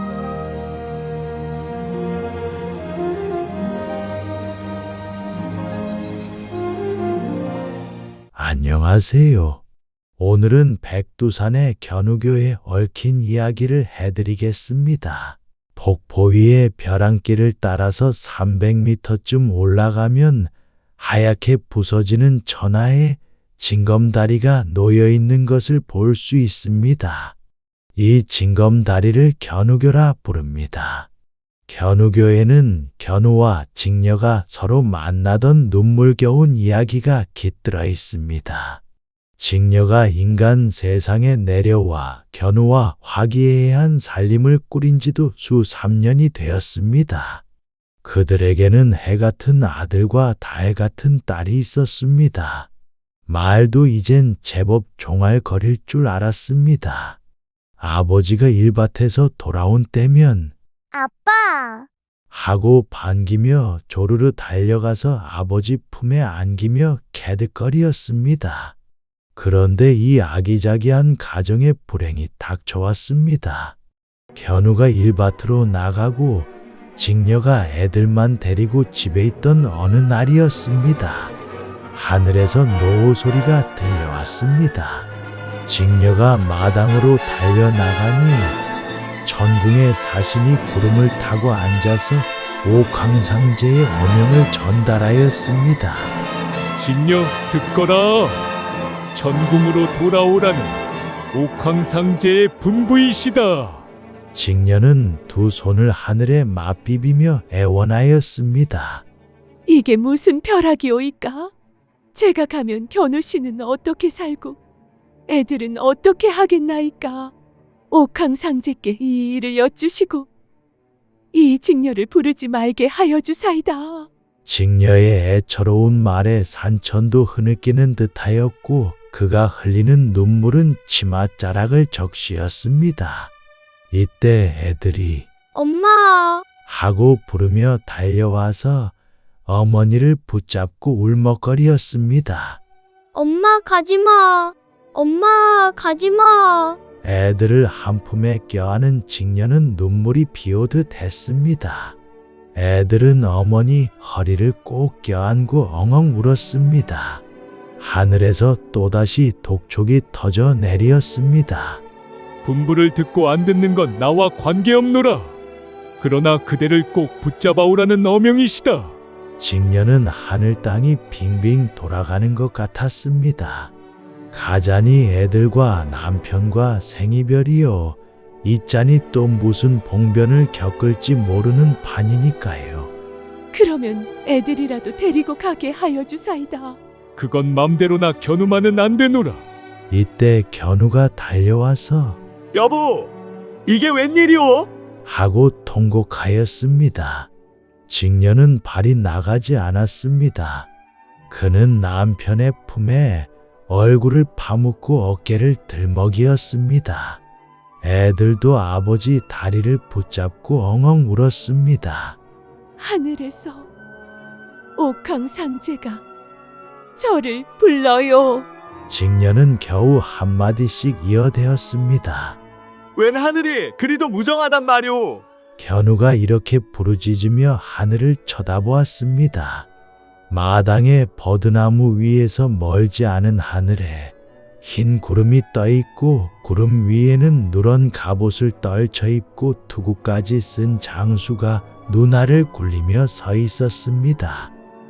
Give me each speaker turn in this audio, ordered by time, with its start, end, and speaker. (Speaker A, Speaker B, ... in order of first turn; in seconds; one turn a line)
Speaker A: 8.3-9.6
Speaker A: 10.2-27.4
Speaker A: 28.0-31.1
Speaker A: 31.7-38.8
Speaker A: 39.4-47.4
Speaker A: 48.0-52.7
Speaker A: 53.3-57.2
Speaker A: 57.8-60.5
Speaker B: 61.0-61.9
Speaker A: 62.3-68.8
Speaker A: 69.4-73.8
Speaker A: 74.4-81.3
Speaker A: 81.9-85.1
Speaker A: 85.7-88.6
Speaker A: 89.2-96.2
Speaker C: 96.8-98.4
Speaker C: 99.1-103.9
Speaker A: 104.3-109.0
Speaker D: 109.7-111.5
Speaker D: 112.1-114.6
Speaker D: 115.3-117.3
Speaker D: 117.9-120.3
Speaker D: 121.3-124.1
Speaker A: 124.5-133.3
Speaker A: 133.9-135.3
Speaker B: 135.6-136.4
Speaker A: 136.7-138.9
Speaker A: 139.5-142.6
Speaker B: 143.2-146.8
Speaker A: 147.0-152.0
Speaker A: 152.6-157.2
Speaker A: 157.8-161.8
Speaker C: 162.4-165.4
Speaker C: 166.0-169.0
Speaker A: 169.4-173.7
Speaker A: 174.3-182.9
Speaker D: 183.5-186.8
Speaker C: 187.2-189.4
Speaker A: 189.9-192.2
Speaker E: 192.6-193.1
Speaker E: 193.7-194.7
Speaker A: 195.1-197.3
Speaker A: 197.9-200.7
Speaker A: 201.3-207.2
Speaker A: 207.8-212.2
Speaker D: 212.8-213.7
Speaker D: 214.8-216.1
Speaker D: 217.0-218.5
Speaker A: 218.9-222.4
Speaker E: 223.0-225.2
Speaker A: 225.6-229.7
Speaker A: 230.3-244.5